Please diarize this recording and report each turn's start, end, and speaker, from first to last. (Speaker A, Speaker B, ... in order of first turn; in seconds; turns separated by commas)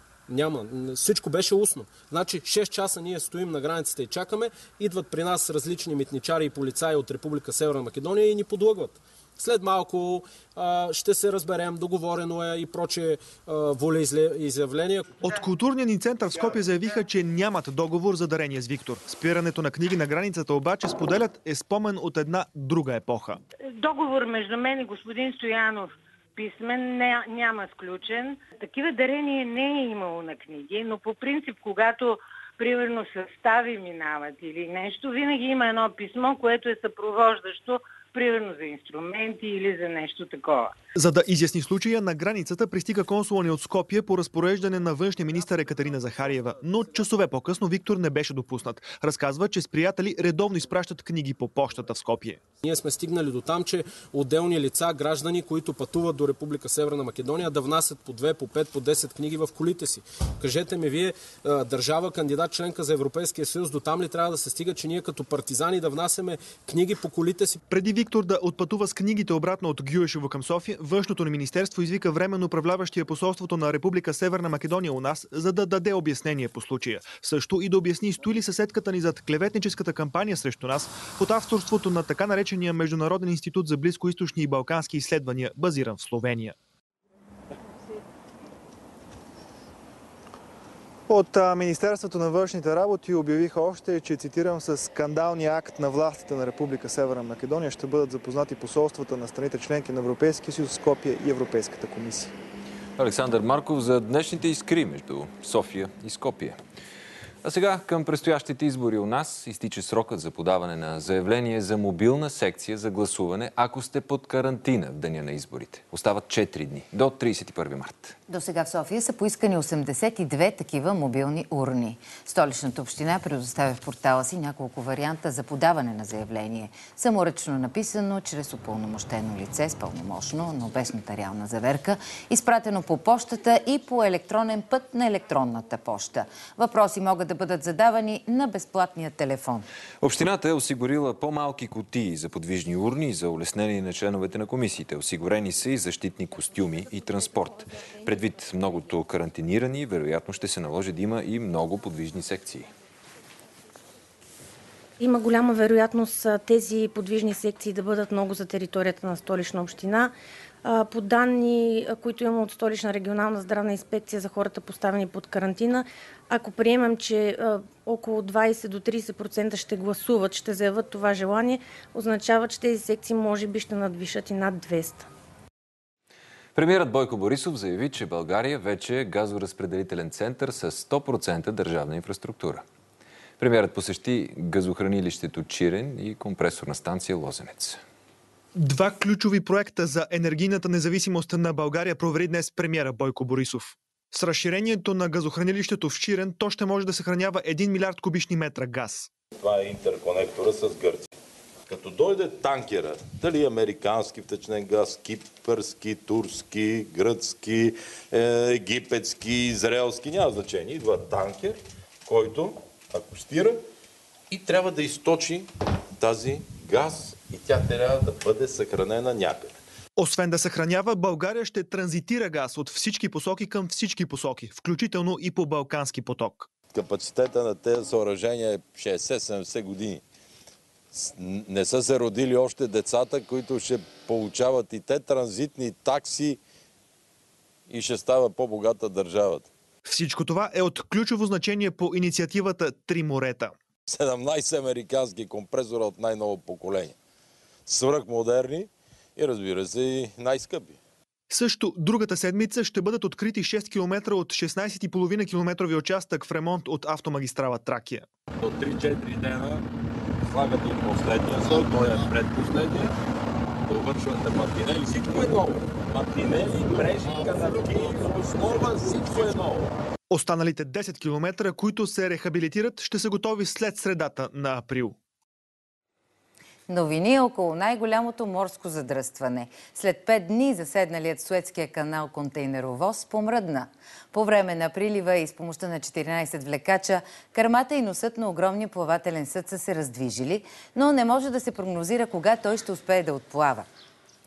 Speaker A: 0.3-15.3, Speaker B: 15.2-23.4, Speaker C: 23.8-40.7, Speaker B: 41.0-52.4, Speaker A: 52.6-67.6, Speaker B: 67.7-86.5, Speaker B: 91.1-102.3, Speaker D: 103.0-106.6, Speaker D: 107.4-118.2, Speaker E: 118.3-139.7, Speaker D: 140.0-152.7, Speaker F: 155.0-175.1, Speaker D: 176.6-182.6, Speaker D: 183.4-187.8, Speaker B: 188.6-199.1, Speaker G: 199.4-201.1, Speaker G: 201.7-213.6, Speaker G: 214.3-219.6, Speaker B: 220.0-226.5, Speaker G: 226.7-230.0, Speaker G: 230.9-236.4, Speaker G: 237.7-239.5, Speaker B: 239.8-243.6, Speaker G: 243.9-246.9, Speaker G: 247.7-250.8, Speaker B: 251.3-258.1, Speaker G: 258.4-259.6, Speaker G: 260.3-262.9, Speaker G: 263.7-269.7, Speaker B: 270.1-275.0, Speaker E: 276.7-293.7